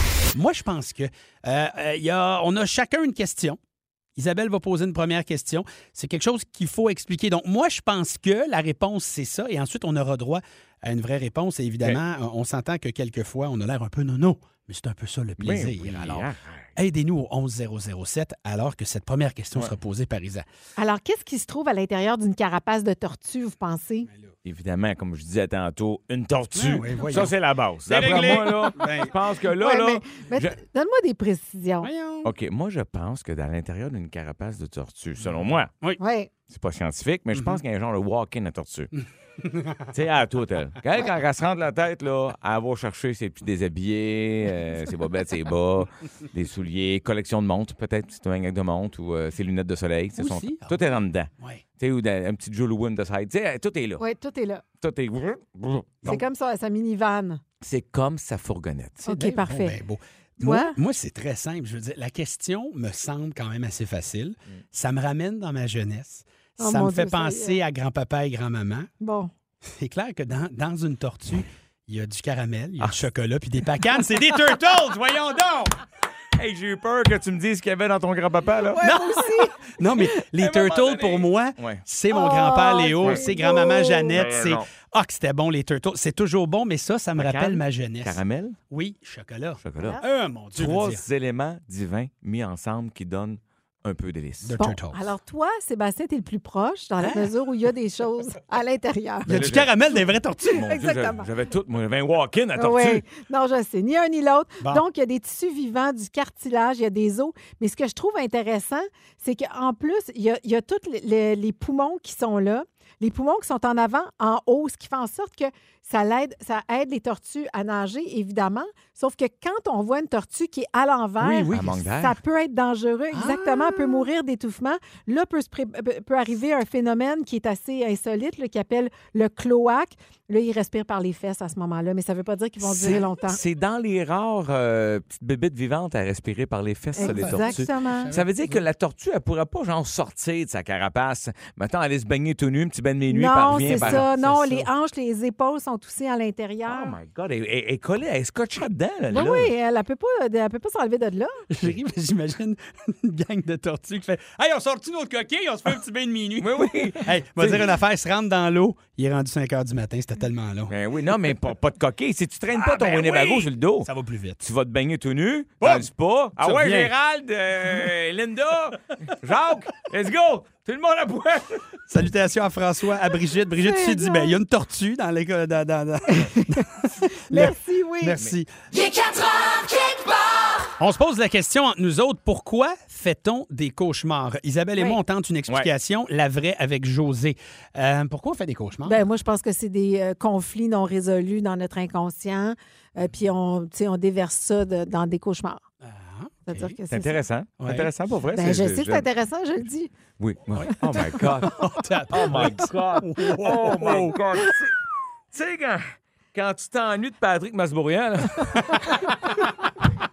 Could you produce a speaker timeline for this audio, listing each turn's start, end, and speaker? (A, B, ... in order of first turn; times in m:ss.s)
0:00.3-0:03.6 A
0:04.2-0:20.4 A
0:15.4-0:16.7 B
0:20.8-0:24.1 C
0:24.4-0:30.5 B
0:26.5-0:27.3 A
0:27.9-0:29.1 A
0:29.5-0:31.9 C
0:31.8-0:32.3 A
0:32.2-0:35.7 B
0:35.2-0:36.0 A
0:36.0-0:36.3 C
0:36.5-0:38.9 B
0:37.3-0:37.6 A
0:39.4-0:39.9 A
0:39.9-0:54.0 B
0:50.2-0:50.8 A
0:54.0-0:54.6 C
0:54.8-0:56.1 B
0:56.0-0:57.4 C
0:57.6-0:59.2 B
0:59.0-0:59.8 C
0:59.1-1:08.9 A
1:00.4-1:00.8 C
1:06.6-1:07.6 C
1:09.0-1:09.3 C
1:09.6-1:15.8 A
1:16.4-1:21.8 B
1:18.6-1:19.6 C
1:19.7-1:28.2 A
1:22.1-1:24.2 C
1:24.1-1:24.7 B
1:27.2-1:28.6 B
1:28.7-1:31.0 A
1:29.6-1:30.0 B
1:30.5-1:34.6 B
1:34.4-1:35.0 A
1:34.6-1:39.5 C
1:37.0-1:37.3 A
1:39.2-1:40.7 A
1:39.3-1:39.7 B
1:40.4-1:41.2 C
1:40.4-1:43.0 B
1:42.6-2:13.4 C
2:01.2-2:01.7 A
2:01.5-2:02.2 B
2:03.1-2:04.1 A
2:12.7-2:24.0 B
2:17.0-2:18.1 C
2:17.0-2:18.6 A
2:23.1-2:27.0 C
2:23.6-2:24.7 A
2:26.7-2:29.5 B
2:29.1-2:31.4 C
2:31.5-2:40.7 A
2:36.4-2:37.7 B
2:40.7-2:43.9 B
2:42.5-2:44.4 A
2:44.4-2:51.6 B
2:45.6-2:46.9 A
2:51.9-2:58.5 A
2:53.6-2:54.4 C
2:56.2-2:58.2 C
3:00.8-3:09.0 A
3:08.8-3:15.6 C
3:15.8-3:16.8 A
3:16.5-3:17.2 C
3:16.9-3:19.1 B
3:17.6-3:17.9 A
3:18.3-3:19.9 C
3:20.2-3:24.7 B
3:20.5-3:24.2 A
3:25.3-3:29.1 B